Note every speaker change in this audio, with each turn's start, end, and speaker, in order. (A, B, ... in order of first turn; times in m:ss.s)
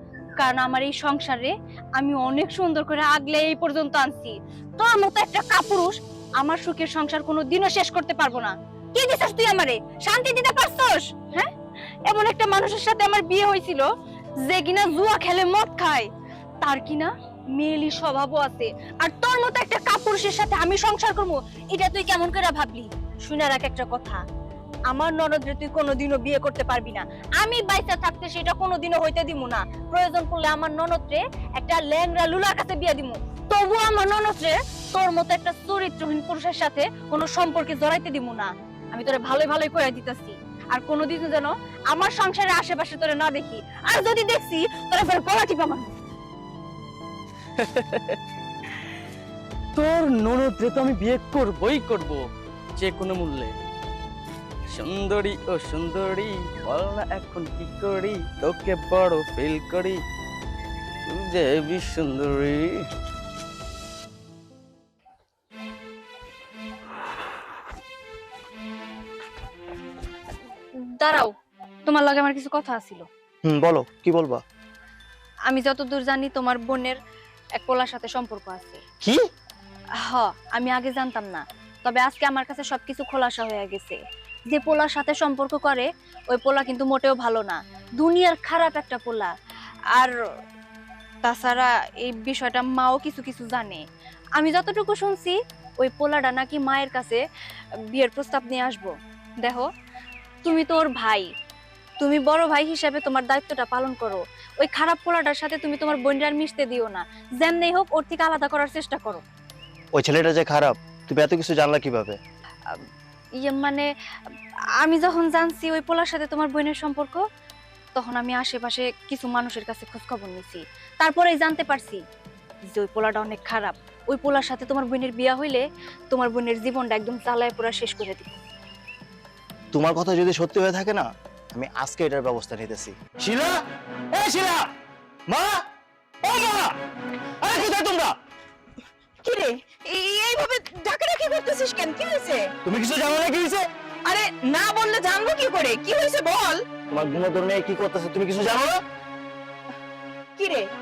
0:00.4-0:11.5 A
0:12.1-0:13.9 A
0:14.4-0:16.1 A
0:16.6-0:24.2 A
0:24.9-0:45.9 A
0:47.6-0:48.2 B
0:49.8-0:52.2 B
0:52.8-0:53.5 B
0:54.7-1:00.0 B
1:01.1-1:02.7 B
1:10.8-1:11.3 A
1:11.9-1:13.0 A
1:13.4-1:14.4 C
1:15.5-1:17.0 A
1:17.6-1:18.8 A
1:20.0-1:24.0 A
1:24.5-1:29.3 A
1:31.2-1:33.8 A
1:34.4-1:37.2 A
1:37.9-1:39.7 A
1:40.4-1:41.3 A
1:42.0-1:49.2 A
1:50.0-1:52.2 C
1:53.4-1:53.8 A
1:54.8-1:57.2 A
1:57.9-2:02.0 A
2:02.7-2:08.4 A
2:09.7-2:13.6 C
2:14.1-2:14.7 C
2:15.3-2:15.6 C
2:16.2-2:16.7 C
2:17.4-2:18.1 C
2:19.2-2:22.5 D
2:22.6-2:23.6 C
2:24.0-2:26.6 D
2:26.9-2:28.8 C
2:30.4-2:30.7 D